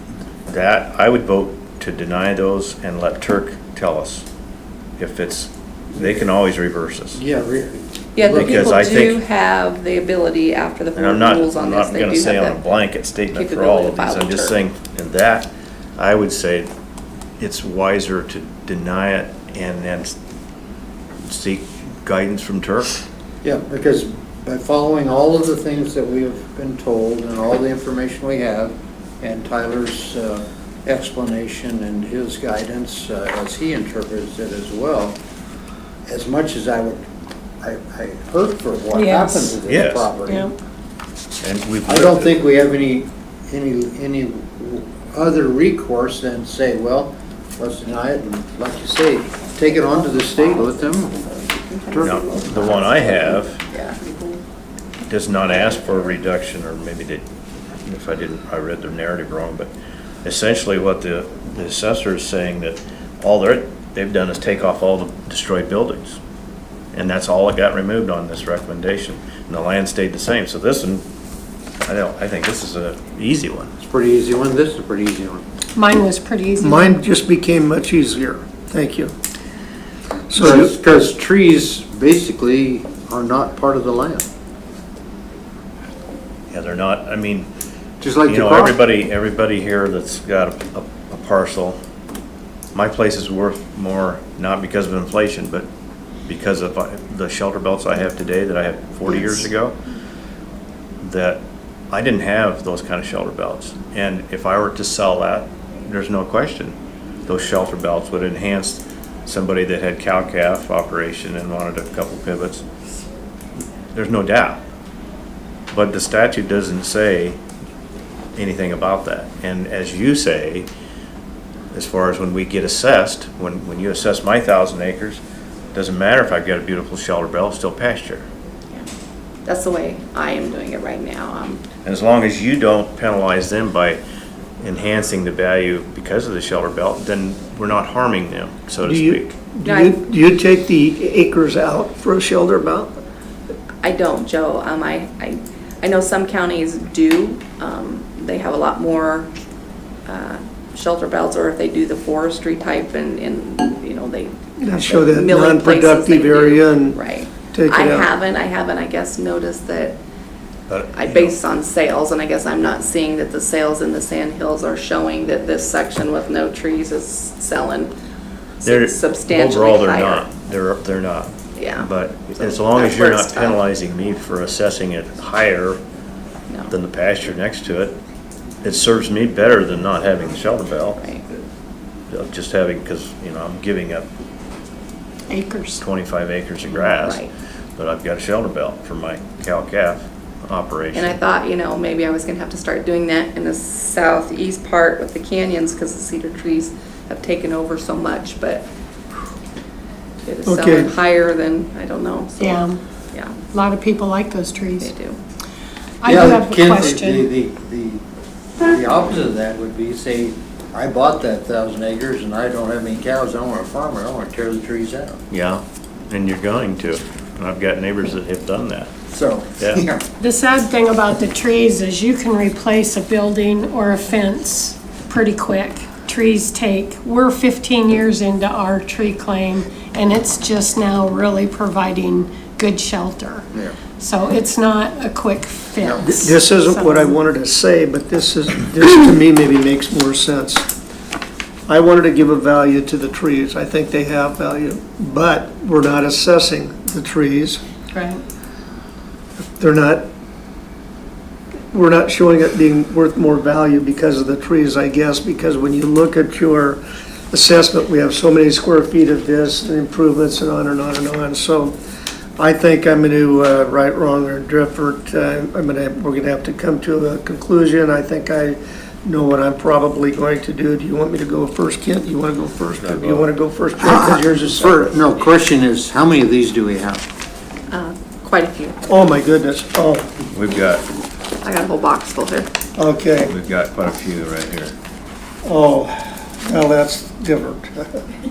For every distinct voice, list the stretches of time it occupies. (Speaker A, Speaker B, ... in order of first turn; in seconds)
Speaker A: 0.5-4.2, 5.0-7.2, 8.3-9.2, 10.9-16.7, 17.4-20.1, 21.2-22.9, 39.7-40.1, 41.4-42.4, 52.0-53.6, 55.1-57.2, 57.8-59.7, 60.2-66.2, 66.9-71.0, 71.8-73.7, 86.5-87.5, 88.3-91.8, 92.7-95.7, 96.3-99.7, 101.0-112.6, 113.9-114.6, 115.7-117.4, 118.3-120.7, 121.7-125.2, 125.7-128.2, 131.8-134.0, 134.6-139.3, 160.7-161.3, 168.6-175.8, 176.7-178.0, 178.6-181.0, 182.1-184.1, 185.8-187.2, 187.8-191.2, 215.3-218.9, 272.7-273.3, 280.3-280.8, 283.2-284.7
Speaker B: 7.1-8.8, 23.4-35.2, 36.1-37.0, 37.6-40.5, 41.9-51.1, 51.9-52.8, 73.8-75.4, 80.3-84.2, 88.0-88.8, 206.0-208.0, 208.6-215.2, 219.1-220.0, 273.8-277.0
Speaker C: 8.2-12.6, 13.3-14.6, 51.2-54.0, 129.4-131.6, 139.6-140.0, 143.8-149.3, 150.1-160.0, 160.9-167.9, 168.6-170.3, 171.6-173.6, 181.0-181.2, 186.7-187.3, 190.9-198.7, 200.2-203.4, 204.8-205.2, 277.7-278.8, 281.4-282.5
Speaker D: 38.9-39.5, 75.7-77.0, 185.3-185.8, 202.4-202.8, 203.4-204.9, 206.0-207.3, 220.2-237.1, 247.9-248.2
Speaker E: 76.6-79.1, 80.3-80.7, 138.8-142.9, 154.6-158.1, 200.4-200.9, 236.0-240.7, 241.7-247.6, 249.6-250.1, 251.7-261.8, 262.4-274.9, 278.9-280.1, 282.8-283.3, 285.4-288.0